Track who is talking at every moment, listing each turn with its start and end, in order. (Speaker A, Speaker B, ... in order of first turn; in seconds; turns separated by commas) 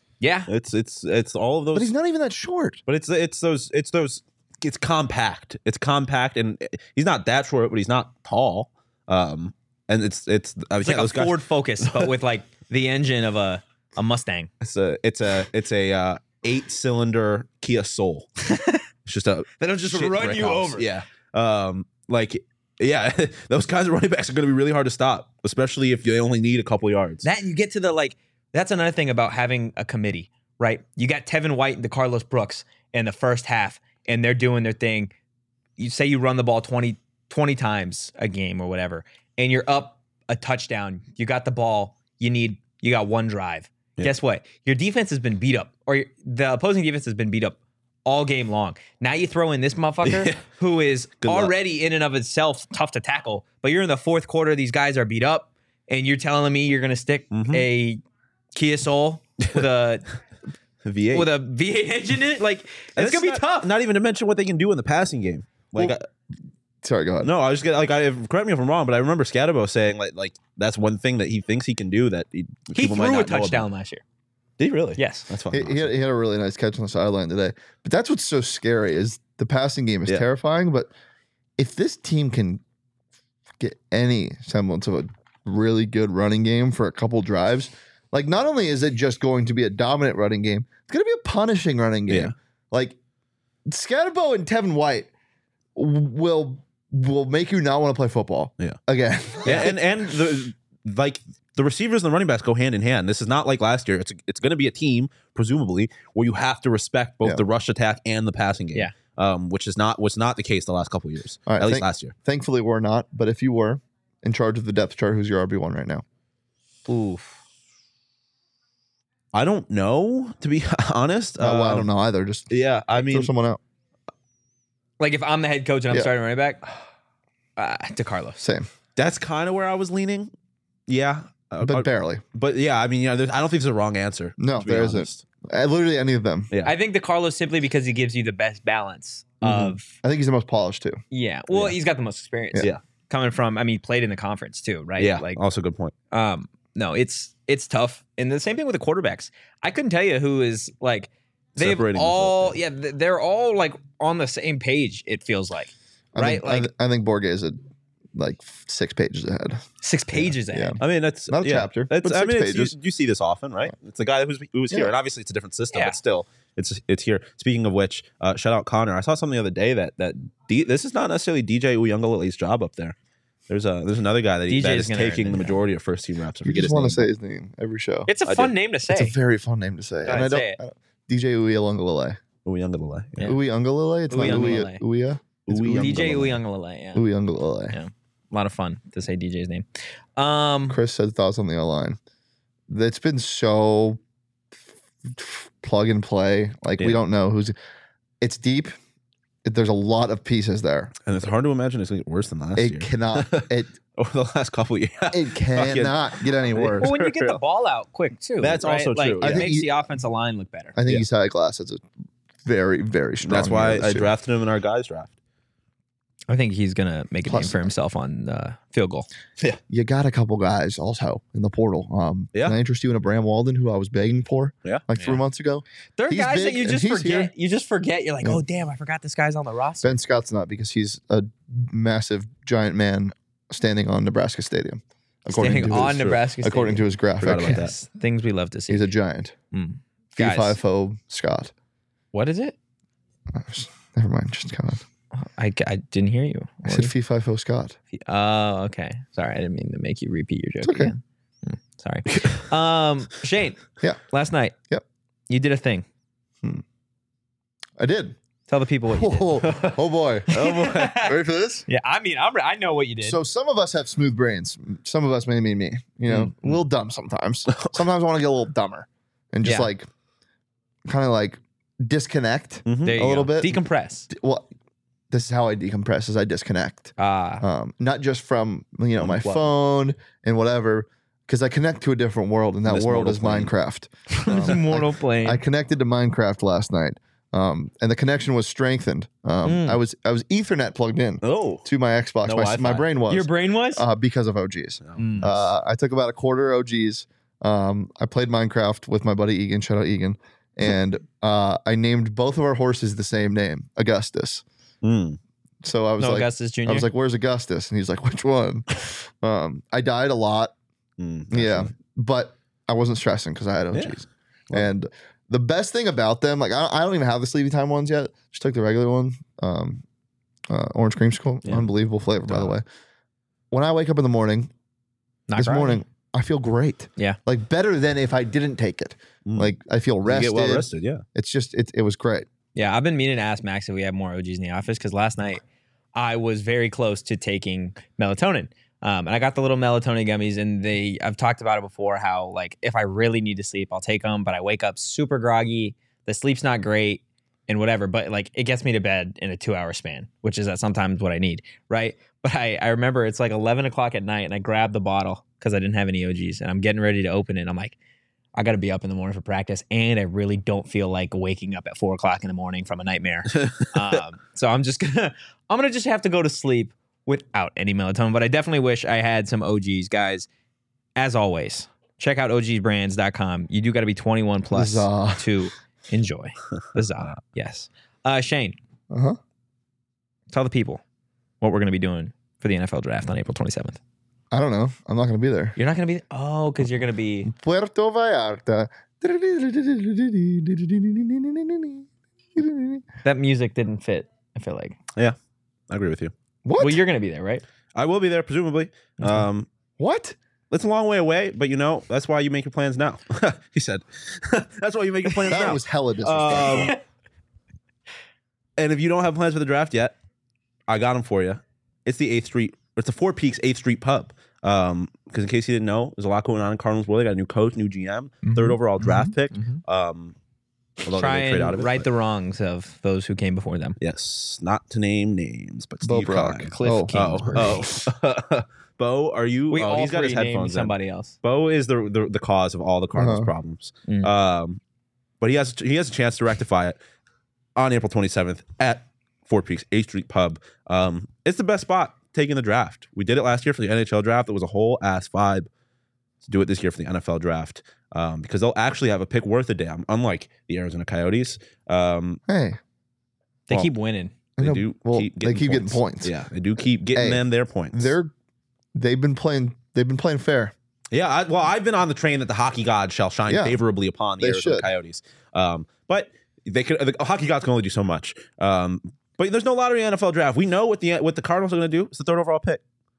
Speaker A: 0.2-0.5, Speaker B: 0.5-1.9, Speaker C: 1.7-2.8, Speaker B: 2.9-12.1, Speaker A: 10.8-14.5, Speaker B: 14.6-18.3, Speaker A: 18.4-18.8, Speaker B: 19.1-27.2, Speaker A: 19.6-20.9, Speaker A: 27.2-35.1, Speaker A: 35.8-58.0, Speaker B: 50.0-50.4, Speaker B: 51.2-51.5, Speaker B: 57.3-57.7, Speaker A: 58.5-60.0, Speaker B: 60.8-61.3, Speaker A: 61.1-63.7, Speaker B: 63.0-66.1, Speaker C: 66.8-67.3, Speaker B: 67.2-73.7, Speaker A: 72.7-74.0, Speaker B: 74.6-75.9, Speaker A: 75.0-75.3, Speaker C: 75.5-80.9, Speaker C: 81.6-82.6, Speaker C: 83.6-93.0, Speaker B: 92.1-92.3, Speaker C: 93.7-95.1, Speaker C: 95.8-99.7, Speaker B: 99.4-112.1, Speaker A: 99.4-99.7, Speaker C: 111.5-116.0, Speaker A: 116.9-117.4, Speaker B: 119.3-121.9, Speaker C: 121.4-123.6, Speaker B: 122.5-123.3, Speaker A: 125.0-126.6, Speaker A: 127.6-128.4, Speaker C: 128.4-128.7, Speaker B: 128.9-130.3, Speaker B: 130.9-135.2, Speaker C: 131.6-132.2, Speaker C: 134.4-136.5, Speaker B: 136.5-136.8, Speaker A: 136.6-139.9, Speaker B: 139.4-139.8, Speaker C: 140.0-141.0, Speaker A: 141.1-145.4, Speaker B: 145.0-145.9, Speaker A: 146.1-156.7, Speaker B: 151.6-152.5, Speaker C: 156.1-157.6, Speaker C: 158.1-159.6, Speaker A: 159.8-160.8, Speaker C: 160.4-162.7, Speaker B: 160.8-172.9, Speaker A: 165.7-166.0, Speaker B: 173.5-177.1, Speaker A: 174.5-175.6, Speaker C: 176.4-178.1, Speaker A: 178.1-179.2, Speaker B: 178.2-178.5, Speaker C: 178.9-182.2, Speaker A: 180.1-180.6, Speaker B: 182.4-183.3, Speaker C: 183.2-186.4, Speaker A: 184.1-184.8, Speaker B: 184.2-184.6, Speaker B: 185.5-186.4, Speaker A: 185.7-187.1, Speaker C: 186.9-187.8, Speaker A: 187.7-189.6, Speaker A: 190.2-190.8, Speaker C: 190.7-192.0, Speaker C: 192.7-194.0, Speaker C: 195.1-197.5, Speaker C: 198.2-198.7, Speaker C: 199.4-200.9, Speaker B: 201.0-207.4, Speaker C: 202.6-203.7, Speaker C: 205.1-206.9, Speaker A: 206.8-210.8, Speaker B: 208.4-209.5, Speaker C: 209.2-209.7, Speaker C: 210.8-211.8, Speaker C: 212.4-214.1, Speaker B: 213.2-215.1, Speaker A: 216.3-219.1, Speaker C: 217.2-217.7, Speaker C: 219.7-227.3, Speaker A: 226.0-229.9, Speaker C: 229.8-237.6, Speaker A: 235.3-238.9, Speaker B: 235.4-236.2, Speaker B: 237.2-237.7, Speaker C: 238.7-239.3, Speaker A: 239.5-240.6, Speaker C: 240.2-241.5, Speaker A: 242.1-242.6, Speaker C: 243.3-244.8, Speaker A: 245.2-246.9, Speaker C: 246.6-247.8, Speaker A: 247.9-254.5, Speaker C: 250.6-250.9, Speaker A: 255.3-255.8, Speaker C: 257.8-258.1, Speaker A: 258.5-259.4, Speaker C: 258.9-260.4, Speaker B: 259.4-259.8, Speaker B: 260.3-261.0, Speaker A: 260.3-261.1, Speaker C: 260.9-261.7, Speaker A: 261.7-263.2, Speaker C: 263.0-269.9, Speaker B: 267.5-267.8, Speaker A: 269.4-269.7, Speaker C: 270.9-273.6, Speaker B: 272.6-273.0, Speaker A: 272.8-274.1, Speaker C: 274.1-274.5, Speaker C: 275.1-304.4, Speaker A: 277.0-277.4, Speaker B: 279.0-279.4, Speaker B: 282.7-283.5, Speaker A: 284.1-285.4, Speaker B: 284.3-284.6, Speaker A: 289.4-289.8, Speaker B: 291.2-291.6, Speaker B: 292.2-292.9, Speaker A: 293.1-293.9, Speaker B: 294.8-295.4, Speaker A: 295.0-295.3, Speaker B: 304.8-305.2, Speaker C: 305.6-310.5, Speaker A: 306.0-306.9, Speaker B: 311.0-311.7, Speaker C: 311.3-319.8, Speaker B: 313.7-314.7, Speaker C: 320.5-322.6, Speaker B: 322.2-322.5, Speaker C: 323.5-324.5, Speaker A: 325.3-325.8, Speaker C: 325.4-332.3, Speaker B: 329.2-329.5, Speaker B: 330.0-331.0, Speaker A: 332.5-335.4, Speaker A: 335.9-357.8, Speaker A: 358.3-370.3, Speaker A: 370.9-378.6, Speaker C: 374.5-375.3, Speaker C: 378.9-379.2, Speaker A: 380.3-380.8, Speaker A: 381.4-383.8, Speaker C: 384.3-385.6, Speaker A: 385.6-387.3, Speaker C: 387.2-392.8, Speaker A: 393.0-394.8, Speaker B: 395.7-396.1, Speaker C: 396.4-396.8, Speaker A: 396.6-397.4, Speaker B: 397.7-399.5, Speaker A: 399.0-399.3, Speaker C: 399.8-400.1, Speaker B: 400.5-406.8, Speaker C: 405.3-406.7, Speaker B: 408.6-409.9, Speaker B: 410.7-420.1, Speaker A: 418.2-419.6, Speaker B: 420.8-421.9, Speaker A: 420.9-423.8, Speaker B: 423.8-434.6, Speaker C: 425.8-427.8, Speaker A: 426.5-427.7, Speaker A: 429.5-431.1, Speaker C: 432.9-433.3, Speaker B: 435.2-436.8, Speaker B: 437.6-445.5, Speaker B: 446.2-452.2, Speaker C: 452.3-452.6, Speaker A: 453.5-454.1, Speaker C: 454.4-456.1, Speaker B: 454.4-457.9, Speaker C: 456.9-458.1, Speaker C: 458.7-460.5, Speaker B: 460.9-472.6, Speaker C: 463.3-463.6, Speaker C: 464.2-464.7